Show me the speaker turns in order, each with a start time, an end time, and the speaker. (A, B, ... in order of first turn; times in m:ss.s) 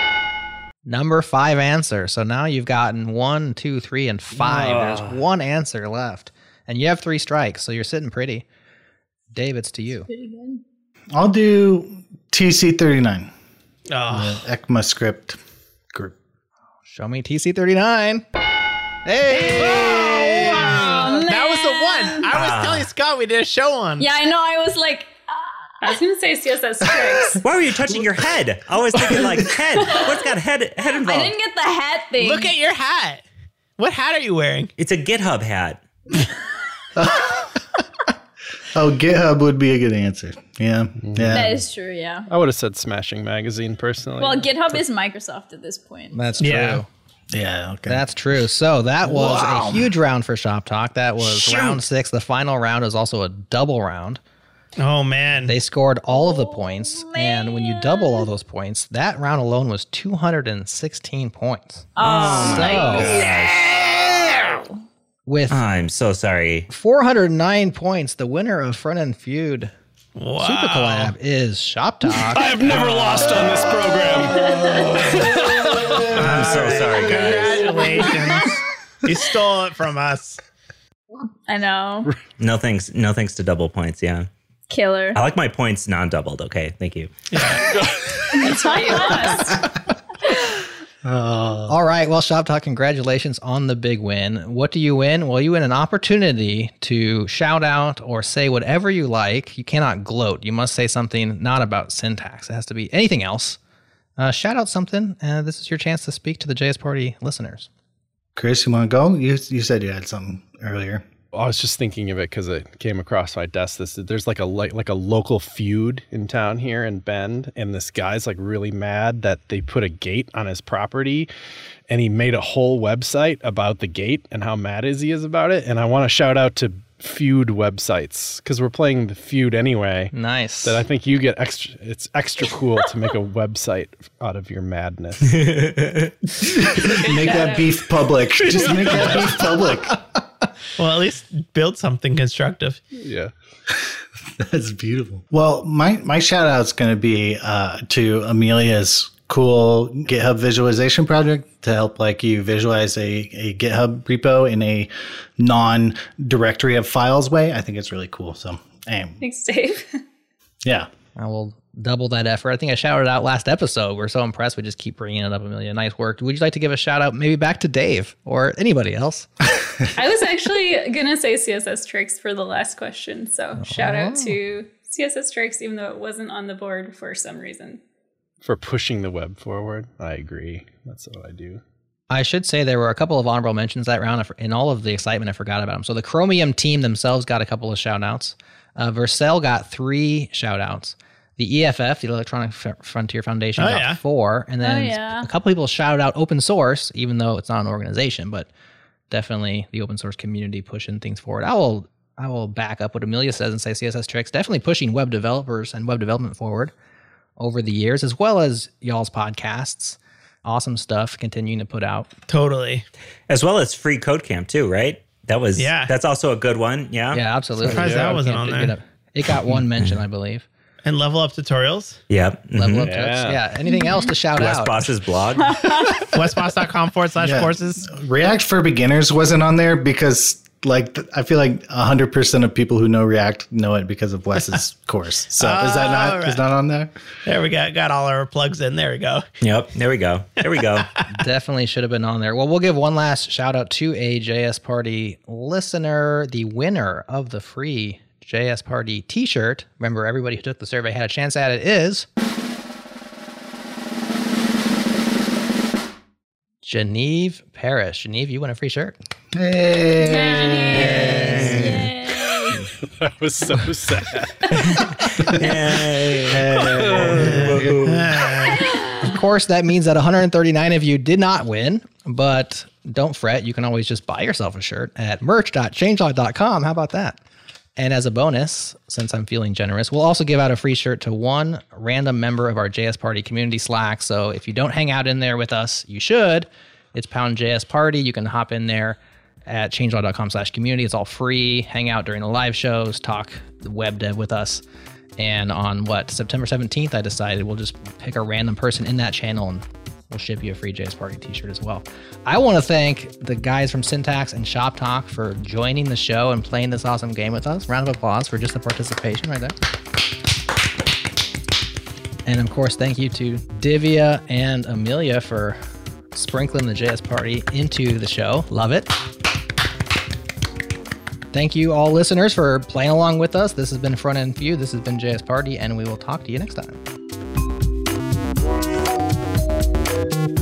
0:00.8-0:08.4 A
0:04.3-0:05.2 B
0:09.3-0:10.1 A
0:10.0-0:10.6 C
0:11.1-0:13.3 D
0:13.9-0:14.4 E
0:14.1-0:15.4 D
0:16.9-0:18.2 A
0:19.0-0:20.9 A
0:19.3-0:24.1 E
0:20.5-0:22.3 C
0:22.3-0:22.9 B
0:24.0-0:26.0 C
0:25.8-0:27.4 F
0:27.4-0:31.3 B
0:29.0-0:29.5 D
0:30.9-0:32.5 C
0:32.2-0:33.2 E
0:33.8-0:34.7 E
0:34.8-0:35.8 B
0:37.0-0:37.5 D
0:38.7-0:41.5 D
0:41.0-0:41.6 G
0:41.3-0:42.3 C
0:42.3-0:44.8 G
0:44.2-0:46.4 C
0:46.1-0:46.9 A
0:46.4-0:46.8 E
0:47.3-0:48.0 D
0:47.8-0:54.2 A
0:49.1-0:49.8 D
0:51.2-0:51.8 B
0:54.8-0:55.6 E
0:55.4-1:03.2 A
0:56.1-0:58.3 C
1:02.0-1:04.7 C
1:02.0-1:04.0 B
1:05.2-1:05.6 A
1:05.5-1:06.7 B
1:06.7-1:09.7 A
1:10.2-1:11.1 E
1:10.4-1:12.7 A
1:12.1-1:16.2 G
1:16.1-1:17.9 B
1:16.1-1:20.4 E
1:17.7-1:18.6 C
1:21.5-1:22.1 C
1:22.4-1:24.3 B
1:24.7-1:25.2 C
1:25.1-1:27.1 B
1:27.3-1:27.7 E
1:28.3-1:29.7 F
1:28.3-1:29.6 C
1:31.0-1:31.7 D
1:31.7-1:43.6 A
1:44.2-1:47.7 A
1:48.4-1:51.0 D
1:51.3-2:01.3 G
2:01.9-2:15.7 G
2:10.1-2:10.8 A
2:15.8-2:16.1 B
2:16.4-2:20.0 D
2:17.0-2:17.8 F
2:18.4-2:19.3 G
2:20.8-2:22.8 E
2:22.9-2:23.3 G
2:24.4-2:39.2 D
2:39.2-2:40.0 F
2:41.2-2:49.3 A
2:49.9-2:57.8 F
2:53.6-2:54.4 A
2:58.4-3:01.6 G
3:02.1-3:18.5 A
3:13.6-3:14.0 E
3:14.6-3:15.3 C
3:19.1-3:26.7 A
3:27.4-3:32.1 A
3:32.3-3:32.8 E
3:33.3-3:37.2 B
3:35.6-3:35.9 E
3:37.1-3:40.4 A
3:37.6-3:38.2 G
3:37.7-3:38.8 E
3:40.8-3:42.0 E
3:42.1-3:42.9 B
3:42.5-3:44.9 A
3:42.8-3:43.4 G
3:43.7-3:44.0 C
3:44.4-3:45.8 B
3:45.4-3:46.1 C
3:46.1-3:47.9 E
3:47.2-3:56.9 D
3:54.3-3:54.6 E
3:55.4-3:56.4 E
3:57.2-3:59.2 E
3:59.4-4:00.9 B
4:01.1-4:12.1 A
4:16.6-4:19.0 A
4:19.3-4:20.9 D
4:20.0-4:22.6 C
4:20.7-4:21.8 A
4:20.7-4:21.9 B
4:22.9-4:24.5 G
4:24.5-4:28.5 B
4:25.2-4:25.5 D
4:26.1-4:27.9 D
4:26.6-4:27.2 G
4:27.2-4:28.6 E
4:28.5-4:29.1 C
4:29.0-4:37.2 A
4:37.8-4:54.6 A
4:55.2-5:09.6 A
5:12.2-5:15.6 A
5:16.1-5:18.9 A
5:21.3-5:26.8 A